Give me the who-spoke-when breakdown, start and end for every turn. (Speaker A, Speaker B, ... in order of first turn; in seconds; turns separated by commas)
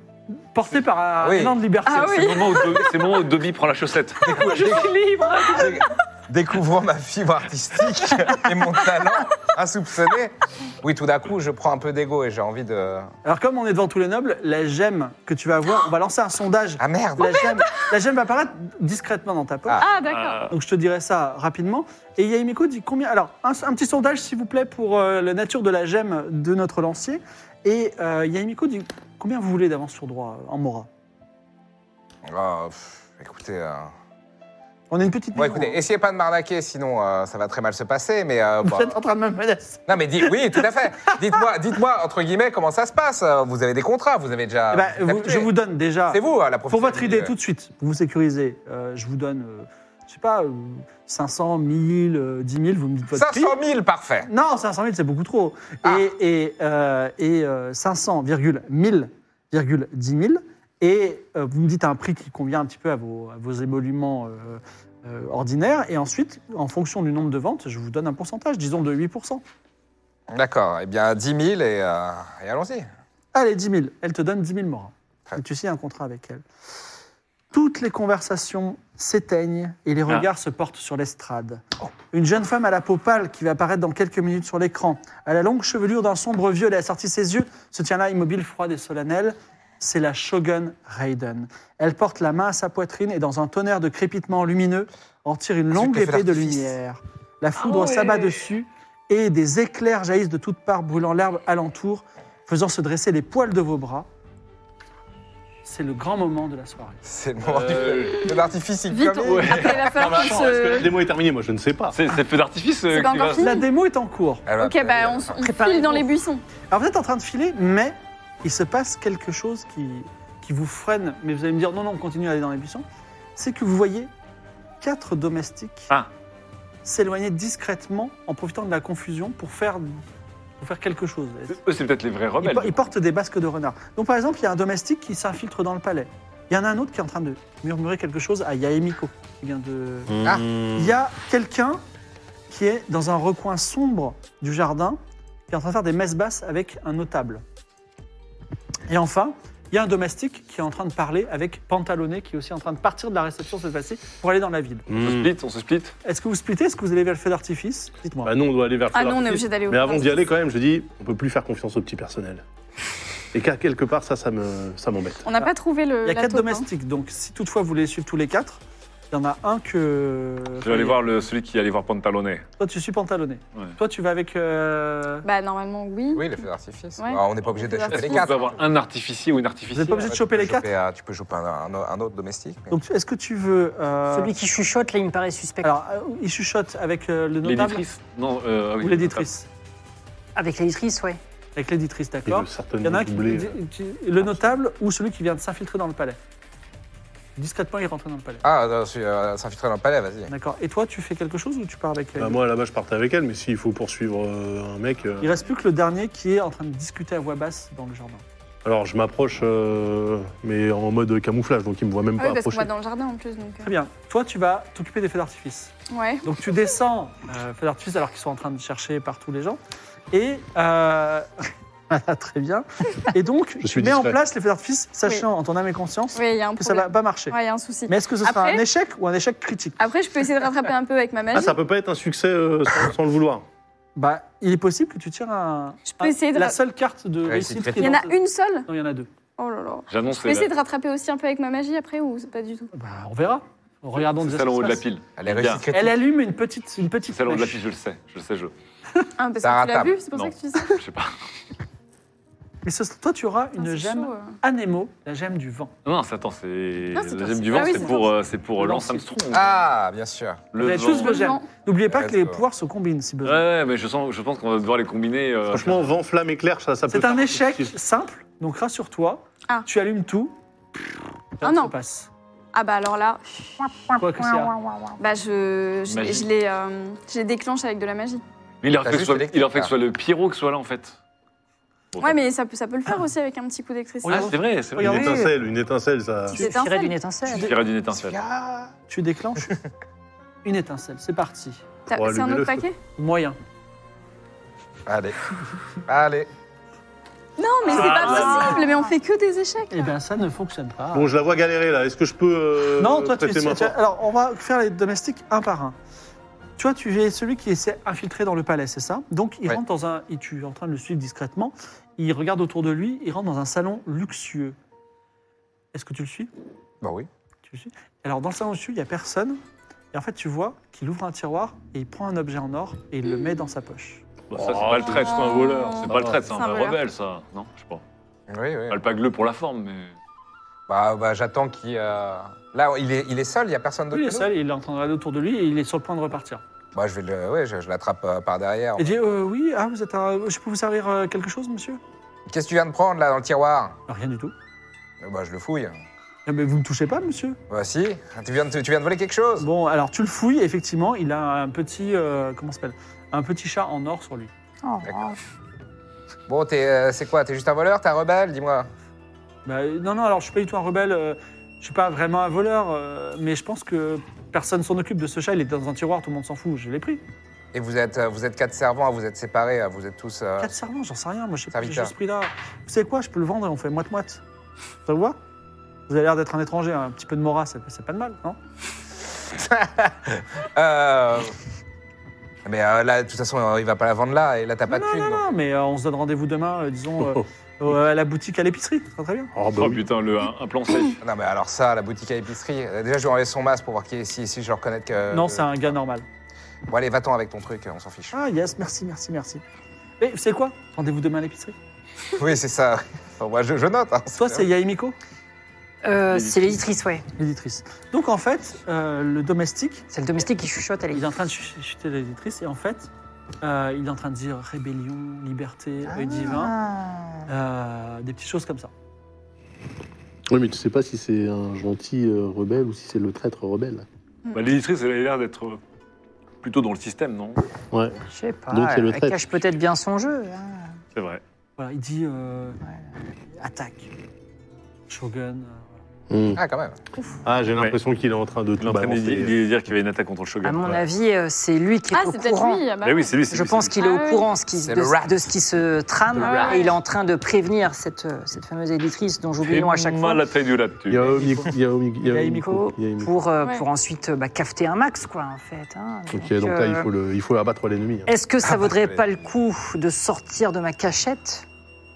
Speaker A: 0.3-2.6, Speaker B: 1.2-1.6, Speaker C: 1.9-2.9, Speaker D: 2.0-4.3, Speaker B: 4.2-4.9, Speaker C: 4.3-5.7, Speaker A: 4.3-5.8, Speaker B: 5.5-13.1, Speaker A: 13.2-19.8, Speaker B: 16.8-17.6, Speaker C: 19.8-20.5, Speaker D: 20.0-20.5, Speaker A: 20.5-30.9, Speaker B: 32.3-33.9, Speaker A: 34.9-35.8, Speaker B: 35.3-38.9, Speaker A: 38.6-41.4, Speaker B: 39.9-45.5, Speaker A: 44.7-53.5, Speaker B: 46.1-47.3, Speaker B: 53.1-54.3, Speaker A: 54.2-69.4, Speaker B: 70.3-72.9, Speaker A: 73.3-76.4, Speaker A: 77.5-104.1, Speaker B: 95.7-96.7, Speaker D: 97.6-98.4, Speaker A: 105.6-107.0, Speaker B: 107.0-109.9, Speaker D: 107.4-108.4, Speaker C: 108.9-110.9, Speaker D: 109.2-110.7, Speaker E: 109.9-112.0, Speaker D: 111.9-113.5, Speaker C: 112.9-113.7, Speaker A: 113.4-114.4, Speaker B: 114.5-115.4, Speaker C: 114.6-116.4, Speaker F: 115.4-116.1, Speaker A: 116.7-122.8, Speaker A: 123.3-124.1, Speaker A: 124.8-125.9, Speaker A: 126.8-130.0, Speaker A: 130.6-131.6, Speaker D: 131.5-132.9, Speaker A: 132.4-140.2, Speaker E: 140.1-140.9, Speaker A: 140.7-141.8, Speaker A: 142.5-147.4, Speaker A: 148.9-154.9, Speaker E: 154.9-155.3, Speaker D: 155.0-155.9, Speaker A: 156.0-158.3, Speaker E: 158.2-162.4, Speaker C: 158.9-160.2, Speaker E: 163.3-165.2, Speaker C: 165.2-166.6, Speaker A: 166.0-168.6, Speaker A: 169.1-171.0, Speaker D: 170.6-172.4, Speaker A: 172.6-175.2, Speaker C: 175.2-176.4, Speaker B: 176.1-178.6, Speaker C: 177.0-178.3, Speaker D: 177.9-180.1, Speaker A: 179.7-180.7, Speaker B: 180.0-182.8, Speaker A: 182.7-184.3, Speaker F: 184.1-185.7, Speaker A: 185.6-187.8, Speaker D: 187.4-189.3, Speaker A: 188.8-189.5, Speaker F: 190.3-191.2, Speaker A: 191.6-196.2, Speaker E: 192.2-193.6, Speaker A: 197.3-198.4, Speaker B: 198.4-200.3, Speaker A: 200.3-202.4, Speaker E: 202.2-205.4, Speaker A: 205.2-208.2, Speaker E: 208.6-212.7, Speaker C: 212.2-213.7, Speaker A: 213.6-219.6, Speaker C: 215.9-216.3, Speaker A: 220.1-227.4, Speaker E: 223.6-224.2, Speaker C: 226.1-228.6, Speaker A: 227.9-229.8, Speaker C: 229.8-231.6, Speaker E: 231.3-233.4, Speaker A: 233.9-239.1, Speaker C: 235.9-236.6, Speaker B: 237.2-238.0, Speaker C: 237.8-238.7, Speaker C: 239.4-242.7, Speaker D: 239.9-240.5, Speaker A: 242.7-244.8, Speaker D: 244.0-245.6, Speaker B: 245.2-246.0, Speaker A: 245.7-247.6, Speaker D: 247.1-248.5, Speaker C: 249.2-250.8, Speaker B: 249.4-250.0, Speaker D: 250.1-251.1, Speaker A: 252.6-255.7, Speaker C: 253.6-254.4, Speaker D: 255.8-259.7, Speaker C: 256.9-258.1, Speaker A: 257.5-259.1, Speaker B: 259.3-260.4, Speaker D: 260.5-261.2, Speaker A: 260.6-263.4, Speaker C: 260.8-261.5, Speaker B: 261.9-262.4, Speaker D: 263.2-265.9, Speaker E: 265.5-267.7, Speaker A: 266.9-270.3, Speaker A: 271.4-272.1, Speaker C: 271.4-271.7, Speaker C: 272.5-273.5, Speaker F: 273.6-274.9, Speaker A: 273.9-274.6, Speaker C: 275.0-278.2, Speaker D: 275.9-276.3, Speaker D: 278.6-281.0, Speaker B: 278.8-279.7, Speaker D: 281.9-282.2, Speaker C: 282.0-284.3, Speaker A: 284.0-285.3, Speaker D: 284.1-285.2, Speaker E: 284.8-286.4, Speaker F: 284.8-285.1, Speaker F: 286.3-287.5, Speaker C: 286.3-286.9, Speaker D: 287.2-288.2, Speaker A: 287.3-287.5, Speaker B: 287.9-288.7, Speaker A: 288.9-289.5, Speaker A: 290.4-291.6, Speaker C: 291.9-292.8, Speaker E: 291.9-292.7, Speaker A: 293.0-293.4, Speaker B: 294.9-295.2, Speaker B: 295.9-296.3, Speaker C: 297.4-299.9, Speaker A: 297.7-298.6, Speaker D: 297.7-298.6, Speaker A: 299.7-301.1, Speaker E: 300.9-303.8, Speaker A: 302.8-305.8, Speaker A: 306.6-314.6, Speaker A: 315.7-316.3, Speaker B: 316.8-317.1, Speaker A: 317.4-319.4, Speaker A: 319.9-324.0, Speaker D: 324.3-327.8, Speaker E: 324.3-326.3, Speaker C: 324.9-326.8, Speaker B: 328.3-328.8, Speaker D: 328.7-329.9, Speaker B: 330.7-334.3, Speaker A: 333.9-336.4, Speaker B: 336.7-339.0, Speaker A: 338.8-341.8, Speaker B: 342.3-343.8, Speaker A: 343.9-344.3, Speaker B: 345.0-345.8, Speaker A: 346.2-347.4, Speaker B: 347.5-349.5, Speaker A: 349.4-354.3, Speaker F: 354.6-355.1, Speaker B: 354.8-355.1, Speaker B: 356.3-358.7, Speaker A: 359.4-367.0, Speaker B: 367.5-370.6, Speaker A: 370.4-374.2, Speaker B: 371.5-371.9, Speaker A: 374.9-375.2, Speaker A: 375.9-378.4, Speaker B: 379.3-381.3, Speaker B: 382.4-385.2, Speaker A: 384.7-389.3, Speaker E: 387.0-387.3, Speaker E: 389.3-389.9, Speaker D: 389.6-391.0, Speaker B: 391.0-395.7, Speaker A: 395.1-396.0, Speaker B: 396.7-398.2, Speaker A: 398.1-399.4, Speaker A: 400.0-401.5, Speaker B: 402.1-404.5, Speaker A: 404.1-404.9, Speaker F: 405.8-407.0, Speaker D: 406.1-406.5, Speaker A: 407.2-409.9, Speaker F: 409.9-411.0, Speaker A: 410.9-412.9, Speaker A: 413.4-416.5, Speaker F: 415.9-417.2, Speaker A: 417.3-418.7, Speaker E: 420.3-423.9, Speaker D: 424.3-425.6, Speaker D: 426.4-427.4, Speaker E: 427.7-427.9, Speaker F: 428.1-430.8, Speaker E: 428.5-429.2, Speaker D: 430.9-431.2, Speaker A: 431.6-432.6, Speaker A: 433.4-433.9, Speaker A: 434.9-435.7, Speaker E: 436.1-436.4, Speaker B: 436.3-436.8, Speaker E: 437.2-439.4, Speaker D: 438.6-440.9, Speaker F: 440.4-442.7, Speaker C: 441.9-443.1, Speaker D: 442.8-443.8, Speaker F: 443.3-450.2, Speaker C: 443.8-444.3, Speaker B: 444.6-445.3, Speaker C: 446.2-446.8, Speaker D: 449.4-451.1, Speaker E: 450.9-453.1, Speaker F: 452.1-456.9, Speaker E: 456.1-458.1, Speaker F: 458.1-461.4, Speaker B: 458.4-459.0